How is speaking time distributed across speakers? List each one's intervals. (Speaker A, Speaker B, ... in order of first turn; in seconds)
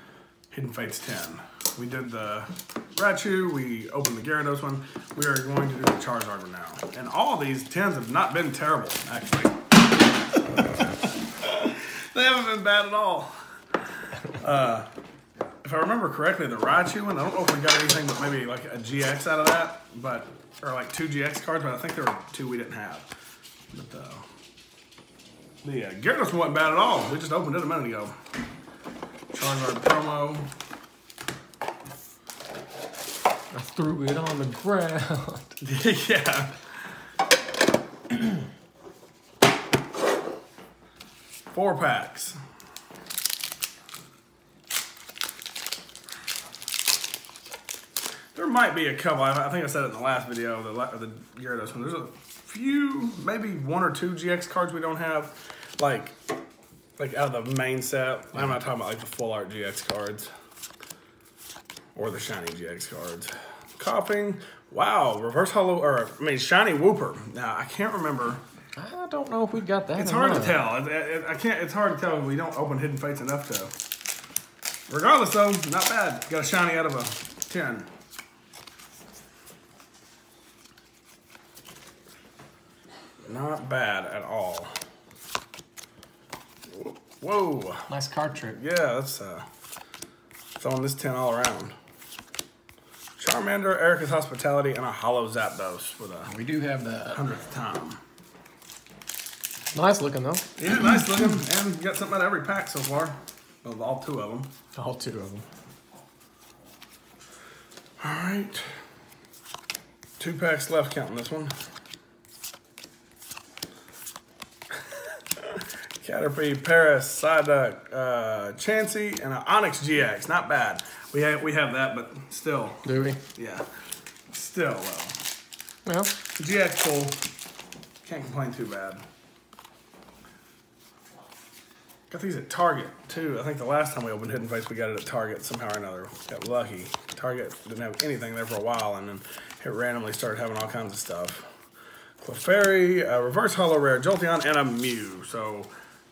Speaker A: 0.5-9.6, 10.9-13.3, 14.2-14.9, 15.6-23.1, 23.7-24.3, 25.6-28.2, 29.3-30.5, 35.6-36.6, 41.5-42.4, 48.3-56.2, 57.0-60.3, 62.0-68.4, 70.0-73.7, 74.9-77.9, 83.2-84.8, 86.7-89.5, 90.6-91.8, 93.2-96.3, 97.1-98.0, 100.6-104.5, 108.0-108.7, 110.2-111.5, 115.4-123.7, 124.3-125.2, 126.4-127.2, 128.0-129.0, 132.1-141.5, 142.2-145.7
Speaker B: 33.5-35.5, 68.8-70.6, 87.9-88.6, 96.3-97.2, 99.7-100.5, 104.8-105.5, 122.8-123.2, 125.9-126.1